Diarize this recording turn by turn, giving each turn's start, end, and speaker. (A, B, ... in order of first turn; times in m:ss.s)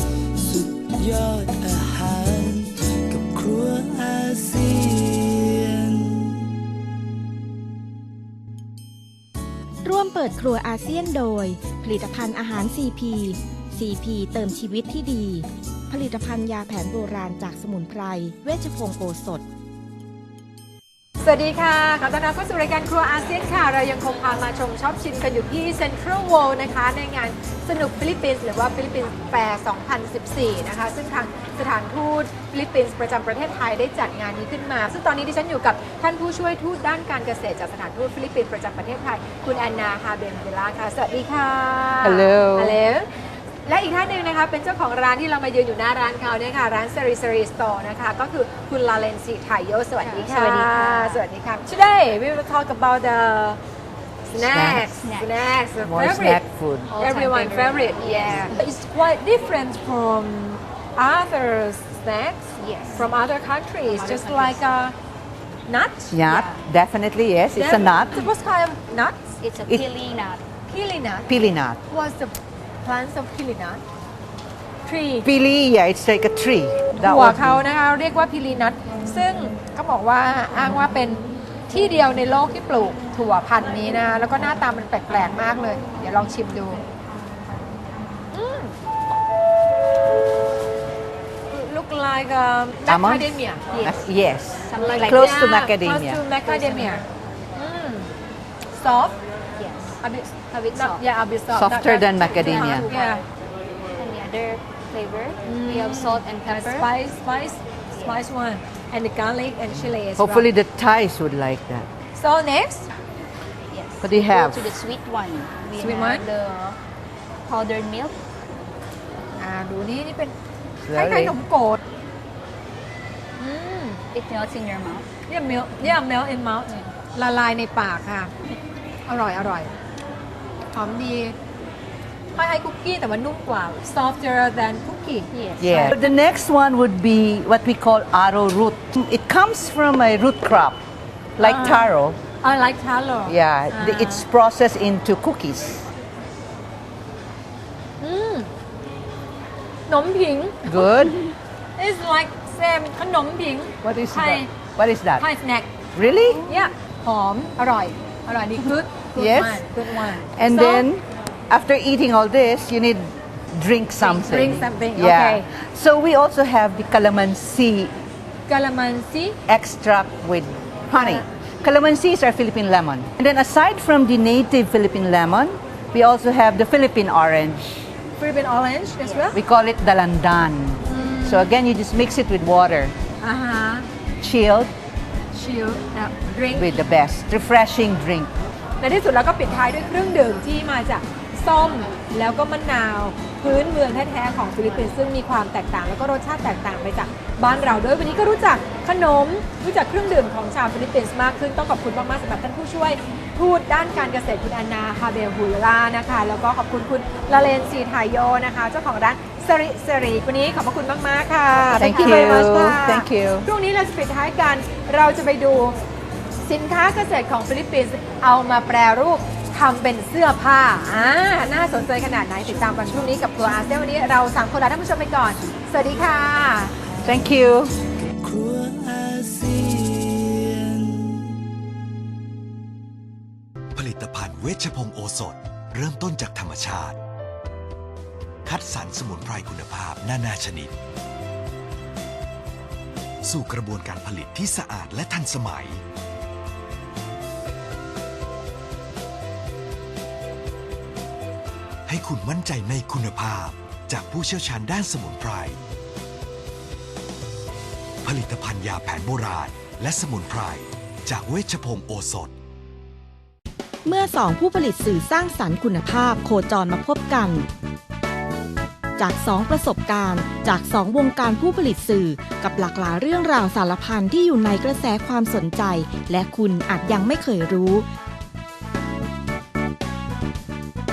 0:00.4-0:06.4 A
0:09.8-0:19.4 B
0:21.2-0:43.1 C
0:42.0-0:42.8 D
0:43.7-0:53.6 C
0:50.0-0:51.2 E
0:54.3-0:56.4 C
0:54.4-0:54.8 D
0:54.8-0:55.4 E
0:55.8-0:56.9 D
0:56.9-0:58.7 E
0:57.0-1:05.0 C
1:02.6-1:03.1 E
1:03.9-1:04.6 E
1:05.7-1:06.4 C
1:06.1-1:08.3 D
1:06.3-1:06.6 E
1:07.5-1:09.3 C
1:09.4-1:10.4 E
1:10.7-1:11.4 C
1:11.3-1:11.8 D
1:11.9-1:13.8 C
1:14.9-1:15.3 C
1:15.2-1:17.7 D
1:17.0-1:26.8 C
1:28.3-1:28.8 C
1:31.5-1:33.8 C
1:32.9-1:36.2 D
1:33.7-1:34.0 E
1:34.7-1:35.5 E
1:34.8-1:38.1 C
1:36.4-1:37.0 E
1:38.7-1:39.2 C
1:39.6-1:41.0 E
1:40.0-1:43.2 C
1:41.5-1:42.9 D
1:42.3-1:43.2 E
1:44.0-1:46.9 E
1:45.4-1:50.5 C
1:47.9-1:48.3 E
1:50.2-1:51.9 D
1:52.1-1:52.9 C
1:53.7-1:56.8 E
1:54.0-1:54.6 D
1:55.7-1:56.3 C
1:57.5-1:58.2 E
1:59.4-2:00.3 C
2:00.8-2:01.4 D
2:00.9-2:01.8 C
2:03.4-2:04.0 C
2:04.1-2:05.1 E
2:05.3-2:08.3 C
2:09.1-2:09.7 C
2:10.7-2:11.4 C
2:12.4-2:16.0 C
2:15.3-2:15.9 E
2:15.6-2:20.8 D
2:21.4-2:22.2 D
2:21.4-2:21.9 C
2:22.4-2:24.2 C
2:23.3-2:25.9 D
2:28.0-2:28.5 C
2:29.9-2:30.9 C
2:30.7-2:31.2 D
2:31.8-2:34.5 C
2:33.8-2:35.3 D
2:35.2-2:35.7 C
2:36.0-2:36.5 D
2:36.5-2:40.9 C
2:39.2-2:39.6 D
2:40.3-2:47.9 D
2:44.0-2:45.5 C
2:48.5-2:49.4 C
2:49.5-2:57.9 D
2:50.9-2:51.2 C
2:58.2-2:59.4 C
2:59.3-3:02.9 D
3:00.8-3:01.5 C
3:03.2-3:03.9 C
3:04.2-3:04.7 D
3:05.3-3:06.8 C
3:06.5-3:08.3 D
3:08.8-3:35.8 C
3:31.8-3:33.5 D
3:36.4-3:46.7 C
3:47.0-3:47.7 D
3:48.0-3:51.3 A
3:53.8-3:57.0 F
3:58.4-4:00.7 F
4:03.2-4:05.8 F
4:11.9-4:15.6 F
4:18.0-4:22.3 F
4:23.8-4:27.5 B
4:29.0-4:37.9 B